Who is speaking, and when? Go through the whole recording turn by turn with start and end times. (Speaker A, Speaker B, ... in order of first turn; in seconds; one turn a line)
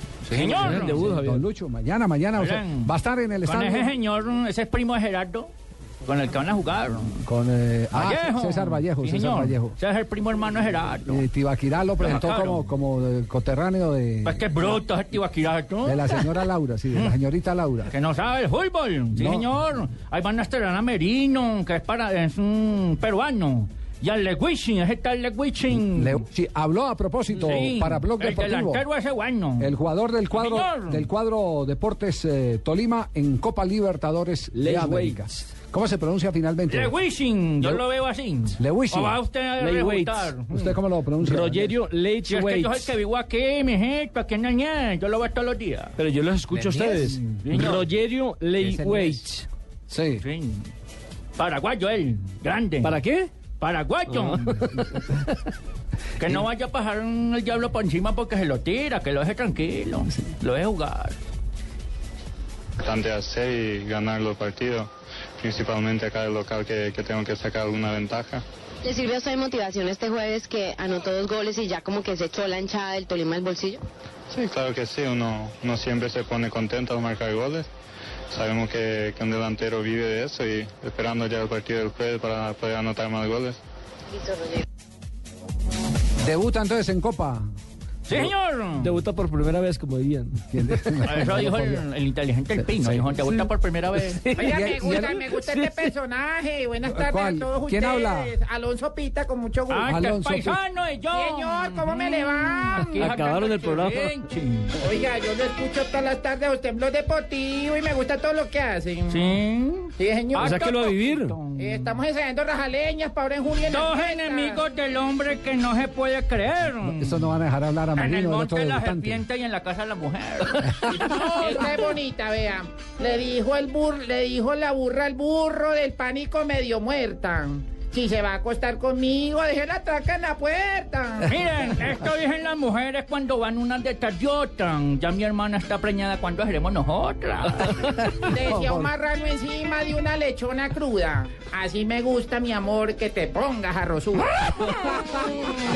Speaker A: 0.2-1.1
Speaker B: 0.3-1.5
Speaker C: 0.6-3.9
Speaker A: 2.4-2.9
Speaker A: 3.5-5.5
Speaker A: 6.0-7.2
Speaker C: 7.2-9.8
Speaker A: 7.9-11.3
Speaker C: 11.1-14.8
Speaker A: 12.0-12.7
Speaker A: 14.2-16.4
Speaker C: 15.8-17.9
Speaker A: 17.9-26.2
Speaker C: 19.1-19.5
Speaker C: 25.7-28.8
Speaker A: 27.3-29.8
Speaker C: 29.6-36.9
Speaker A: 30.3-31.1
Speaker B: 34.5-35.3
Speaker A: 36.7-40.8
Speaker C: 38.6-39.2
Speaker B: 39.6-40.4
Speaker C: 40.5-41.8
Speaker B: 41.2-42.9
Speaker A: 42.2-46.0
Speaker B: 46.0-49.5
Speaker A: 46.8-47.9
Speaker C: 49.9-50.2
Speaker A: 50.2-50.7
Speaker A: 51.4-53.0
Speaker B: 52.8-53.3
Speaker A: 53.6-55.0
Speaker B: 54.1-55.4
Speaker A: 56.2-61.2
Speaker D: 62.8-68.4
Speaker E: 68.8-73.8
Speaker D: 74.3-77.7
Speaker D: 78.3-83.6
Speaker C: 86.2-87.5
Speaker A: 88.1-89.0
Speaker B: 88.1-91.0
Speaker C: 90.5-91.8
Speaker A: 91.0-94.7
Speaker C: 92.6-93.5
Speaker B: 94.1-95.9
Speaker F: 94.3-99.9
Speaker C: 94.4-95.2
Speaker C: 96.8-98.3
Speaker A: 99.7-104.8
Speaker C: 99.9-100.6
Speaker F: 101.1-103.1
Speaker B: 102.8-104.2
Speaker F: 104.8-109.4
Speaker A: 109.1-112.0
Speaker F: 110.0-110.6
Speaker B: 110.4-111.4
Speaker F: 111.5-114.6
Speaker A: 113.7-117.3
Speaker C: 116.8-119.2
Speaker A: 118.0-121.8
Speaker F: 121.1-131.3
Speaker A: 131.2-138.0
Speaker F: 138.3-145.0